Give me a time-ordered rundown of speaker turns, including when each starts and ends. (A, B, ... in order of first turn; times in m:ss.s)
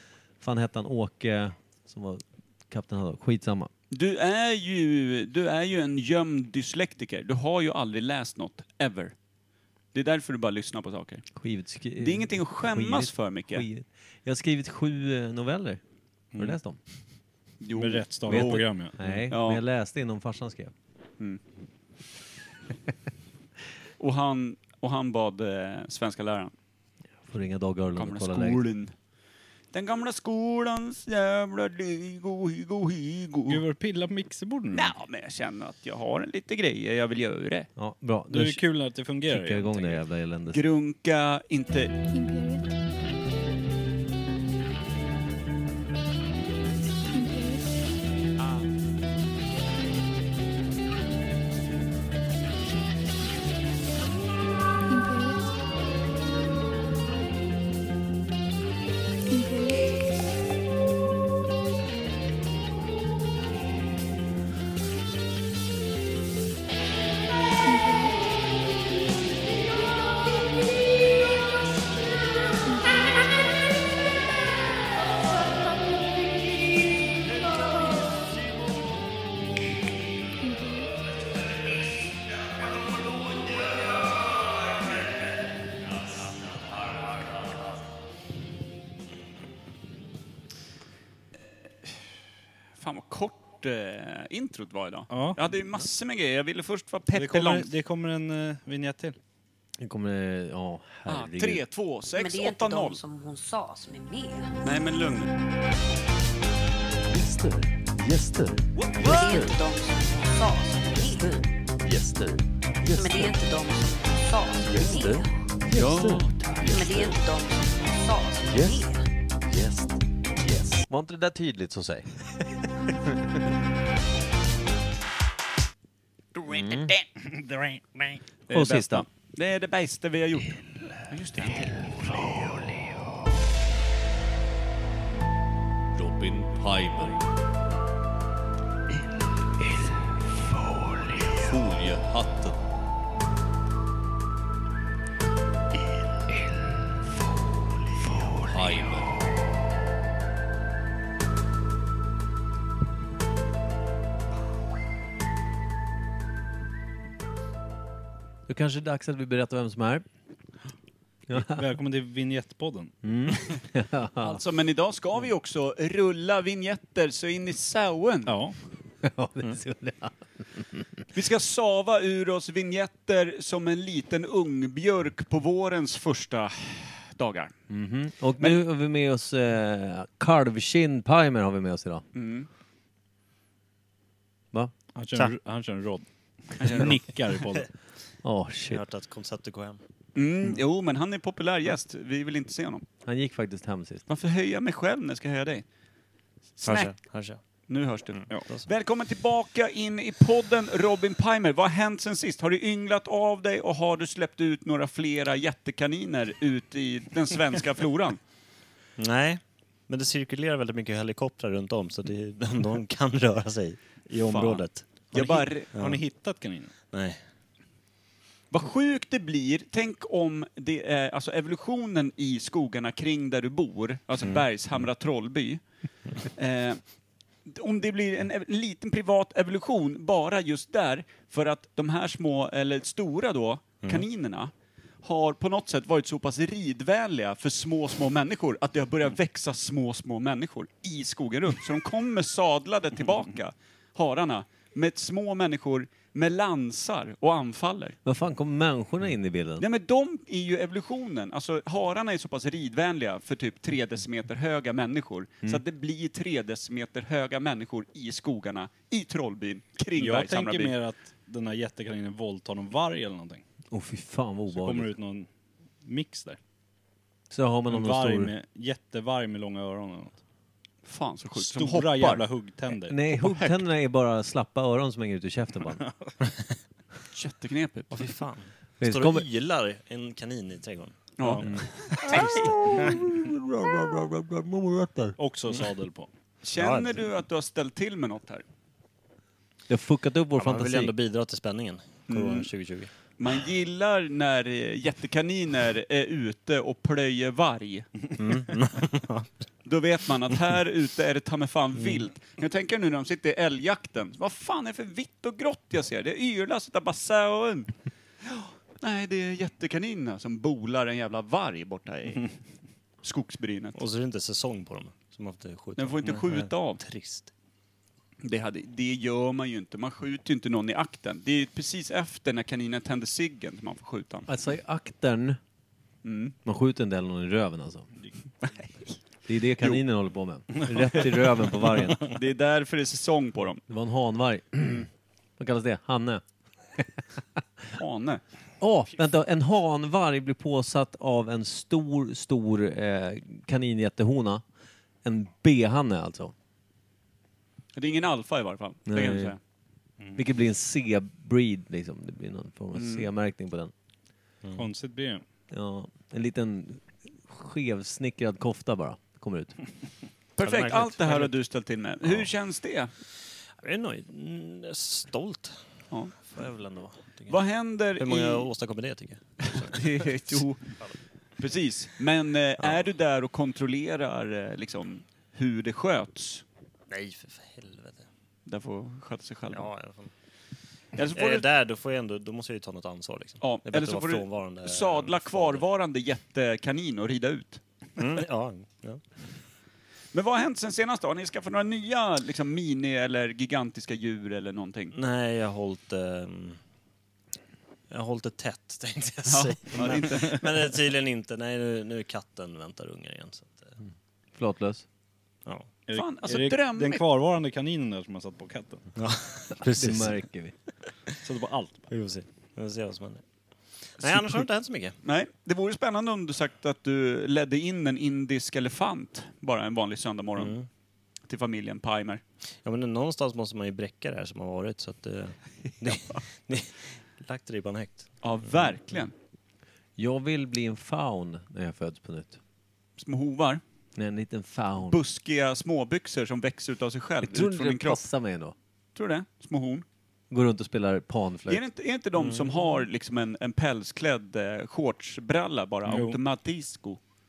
0:00.4-0:03.7 A
0:03.9-0:09.1 B
0:09.9-0:11.3 B
0:11.4-0:15.8 A
0:12.0-0:13.7 B
0:16.3-0:16.6 C
0:16.4-0:16.8 A
0:17.6-0:19.6 B
0:17.8-0:19.0 C
0:18.3-0:20.7 A
0:24.0-0:26.5 B
0:27.2-0:28.6 A
0:28.0-0:28.9 B
0:29.7-0:33.6 B
0:33.5-0:34.9 C
0:34.7-0:37.7 B
0:37.8-0:38.6 A
0:38.3-0:40.0 C
0:39.3-0:40.6 A
0:40.5-0:41.9 B
0:42.1-0:42.7 D
0:47.2-0:47.6 D
0:48.4-0:48.7 B
0:54.9-0:55.4 D
0:59.4-0:59.8 D
1:07.8-1:08.1 D
1:17.4-1:18.2 B
1:20.4-1:20.9 D
1:22.8-1:23.7 B
1:24.6-1:25.0 B
1:32.8-1:37.7 B
1:35.1-1:35.4 C
1:37.1-1:39.2 C
1:39.8-1:41.6 A
1:41.1-1:43.0 B
1:42.2-1:44.6 E
1:44.6-1:45.3 B
1:47.1-1:49.5 A
1:49.0-1:51.4 E
1:49.2-1:49.4 F
1:51.8-1:52.2 F
1:51.9-1:53.3 A
1:52.9-1:55.3 E
1:54.7-1:57.0 F
1:54.7-1:56.8 A
1:55.7-1:56.4 B
1:56.7-1:59.1 E
1:59.5-1:59.9 F
2:00.4-2:02.3 A
2:02.9-2:03.3 A
2:06.3-2:07.0 B
2:06.4-2:06.9 A
2:07.2-2:08.2 C
2:08.5-2:12.3 B
2:08.5-2:09.0 A
2:15.9-2:17.2 F
2:21.2-2:22.6 F
2:28.3-2:29.2 F
2:38.5-2:40.0 A
2:41.3-2:41.6 A
2:41.3-2:42.9 C
2:43.0-2:44.4 A
2:44.2-2:48.4 B
2:48.3-2:48.5 C
2:49.0-2:51.0 A
2:51.1-2:57.5 B
2:57.7-3:02.0 A
3:02.1-3:02.5 B
3:04.9-3:07.7 C
3:06.6-3:07.0 B
3:08.2-3:08.8 A
3:08.7-3:09.8 G
3:10.2-3:12.8 B
3:13.0-3:14.0 A
3:14.1-3:15.6 B
3:16.6-3:16.9 B
3:16.6-3:17.4 G
3:17.7-3:28.2 B
3:18.1-3:18.7 G
3:29.0-3:34.8 G
3:34.2-3:35.7 B
3:35.1-3:36.7 C
3:35.7-3:36.0 G
3:36.9-3:37.2 G
3:38.5-3:45.6 B
3:46.2-3:46.8 B
3:47.5-4:08.0 B
4:08.0-4:09.7 A
4:09.6-4:20.7 B
4:20.0-4:23.4 C
4:23.7-4:24.9 A
4:24.5-4:25.3 C
4:25.8-4:26.4 C
4:27.3-4:28.3 A
4:27.7-4:30.2 C
4:30.9-4:32.2 B
4:31.4-4:33.0 C
4:32.9-4:35.8 A
4:33.1-4:33.6 B
4:35.8-4:36.1 C
4:37.1-4:38.1 B
4:37.9-4:43.0 G
4:38.8-4:39.2 A
4:41.2-4:43.0 B
4:41.2-4:41.5 C
4:41.4-4:45.2 A
4:45.2-4:46.1 C
4:46.4-4:48.4 B
4:46.6-4:47.0 G
4:49.7-4:50.9 A
4:50.4-4:52.9 G
4:52.1-4:52.5 B
4:53.2-4:58.1 B
4:58.2-4:59.3 G
4:59.6-5:07.7 B
5:08.2-5:12.3 B
5:13.0-5:13.8 B
5:13.8-5:17.3 G
5:15.8-5:16.8 B
5:18.2-5:24.3 B
5:24.3-5:25.4 A
5:26.0-5:26.4 B
5:26.4-5:27.9 A
5:28.4-5:28.7 B
5:29.3-5:32.1 A
5:32.0-5:33.6 B
5:33.7-5:36.2 A
5:37.7-5:38.2 B
5:38.6-5:44.4 A
5:45.0-5:46.3 A
5:47.8-5:49.4 B
5:48.9-5:49.4 A
5:50.1-5:53.7 A
5:52.7-5:53.1 B
5:54.6-5:55.2 C
5:55.5-5:59.6 A
6:00.4-6:02.9 B
6:00.4-6:01.3 G
6:03.6-6:05.5 G
6:05.9-6:06.2 B
6:06.2-6:07.4 G
6:07.3-6:08.5 B
6:08.0-6:11.0 G
6:09.4-6:10.8 B
6:11.4-6:16.4 B
6:16.9-6:18.1 G
6:18.5-6:19.7 B
6:19.5-6:20.1 G
6:21.0-6:21.5 B
6:21.1-6:25.6 G
6:23.4-6:27.6 B
6:28.0-6:29.0 G
6:30.1-6:35.0 B
6:34.9-6:36.6 G
6:37.9-6:43.8 G
6:39.2-6:40.5 B
6:44.4-6:44.8 A
6:45.9-6:48.9 C
6:45.9-6:47.0 B
6:49.0-6:50.2 G
6:49.6-6:50.5 A
6:51.2-6:51.9 C
6:51.9-6:53.2 G
6:54.0-6:55.0 G
6:55.0-7:00.6 B
7:00.4-7:00.7 G
7:01.3-7:02.2 B
7:02.6-7:08.1 G
7:08.2-7:09.1 B
7:10.0-7:12.4 A
7:13.0-7:13.6 B
7:14.0-7:15.0 A
7:14.9-7:18.1 B
7:17.2-7:18.6 A
7:19.0-7:19.8 B
7:20.3-7:21.6 A
7:21.5-7:27.0 B
7:22.2-7:22.7 G
7:25.9-7:26.2 C